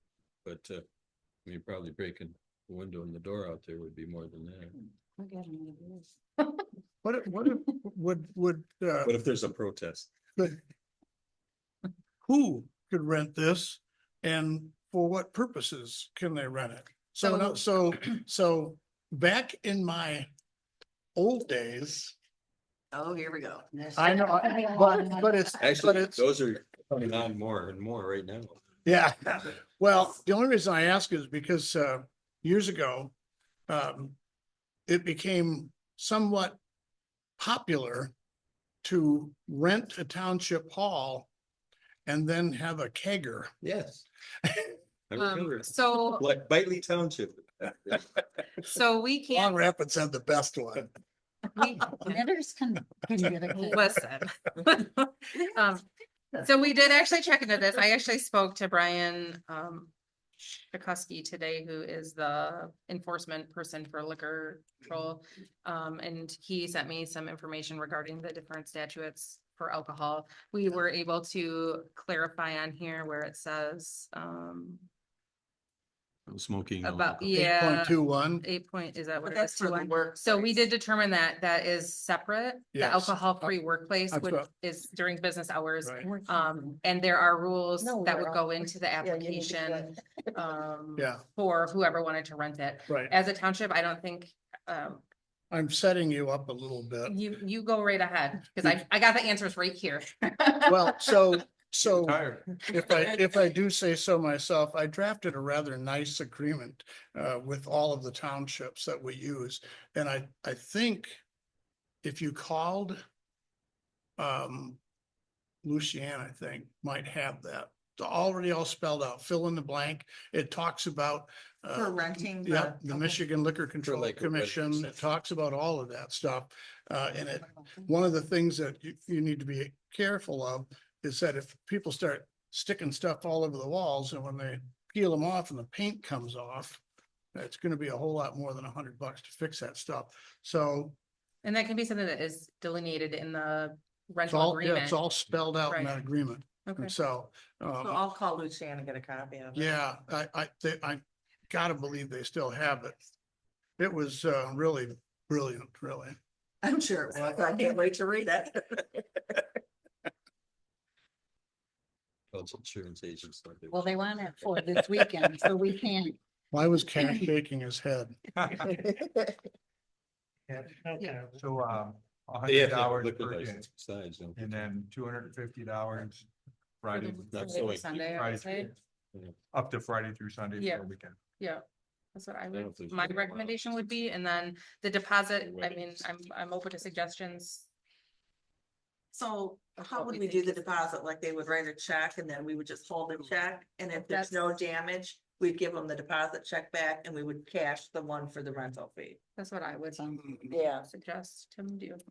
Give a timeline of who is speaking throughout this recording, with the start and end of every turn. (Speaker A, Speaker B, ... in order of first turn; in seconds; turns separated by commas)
Speaker A: 0.4-0.8, Speaker A: 1.4-4.8, Speaker B: 5.2-6.1, Speaker C: 7.0-9.2, Speaker A: 9.0-10.1, Speaker C: 12.2-20.3, Speaker C: 21.2-22.1, Speaker D: 22.9-23.9, Speaker B: 23.8-25.3, Speaker C: 24.0-26.3, Speaker A: 25.6-28.6, Speaker C: 28.9-33.1, Speaker C: 33.7-34.2, Speaker C: 34.9-36.6, Speaker C: 37.4-38.1, Speaker C: 38.8-41.3, Speaker C: 42.1-43.5, Speaker A: 43.6-44.1, Speaker C: 44.4-44.8, Speaker A: 45.1-48.1, Speaker E: 45.2-46.3, Speaker E: 48.6-49.6, Speaker C: 49.3-50.9, Speaker E: 51.5-52.2, Speaker B: 52.0-53.9, Speaker E: 53.5-55.9, Speaker E: 56.4-59.9, Speaker E: 60.7-74.9, Speaker A: 76.3-77.4, Speaker E: 76.8-95.0, Speaker C: 77.3-78.5, Speaker D: 79.2-80.7, Speaker C: 82.7-83.5, Speaker C: 84.1-84.5, Speaker C: 85.8-86.1, Speaker B: 86.3-86.7, Speaker D: 87.8-90.3, Speaker C: 91.0-91.2, Speaker C: 95.5-97.2, Speaker E: 97.1-100.8, Speaker C: 100.7-111.2, Speaker F: 101.8-102.6, Speaker C: 112.0-113.0, Speaker C: 114.2-114.8, Speaker C: 115.6-136.8, Speaker D: 121.7-123.2, Speaker A: 123.8-125.0, Speaker C: 137.3-141.0, Speaker E: 141.4-145.0, Speaker C: 144.3-148.0, Speaker E: 145.7-146.0, Speaker E: 146.7-146.9, Speaker D: 147.8-149.7, Speaker C: 149.6-153.0, Speaker C: 153.8-156.2, Speaker D: 156.6-159.5, Speaker A: 162.3-165.3, Speaker B: 163.7-166.2, Speaker C: 166.5-168.2, Speaker F: 168.4-168.7, Speaker D: 168.7-169.3, Speaker F: 170.5-173.7, Speaker A: 172.5-174.7, Speaker F: 174.4-176.3, Speaker F: 176.8-178.7, Speaker E: 176.9-178.7, Speaker A: 177.3-178.0, Speaker F: 179.5-181.2, Speaker E: 180.6-180.8, Speaker E: 181.4-187.7, Speaker A: 182.5-183.6, Speaker A: 185.4-186.1, Speaker D: 189.1-199.2, Speaker E: 189.8-190.7, Speaker E: 193.9-194.6, Speaker E: 199.4-202.0, Speaker D: 200.5-200.9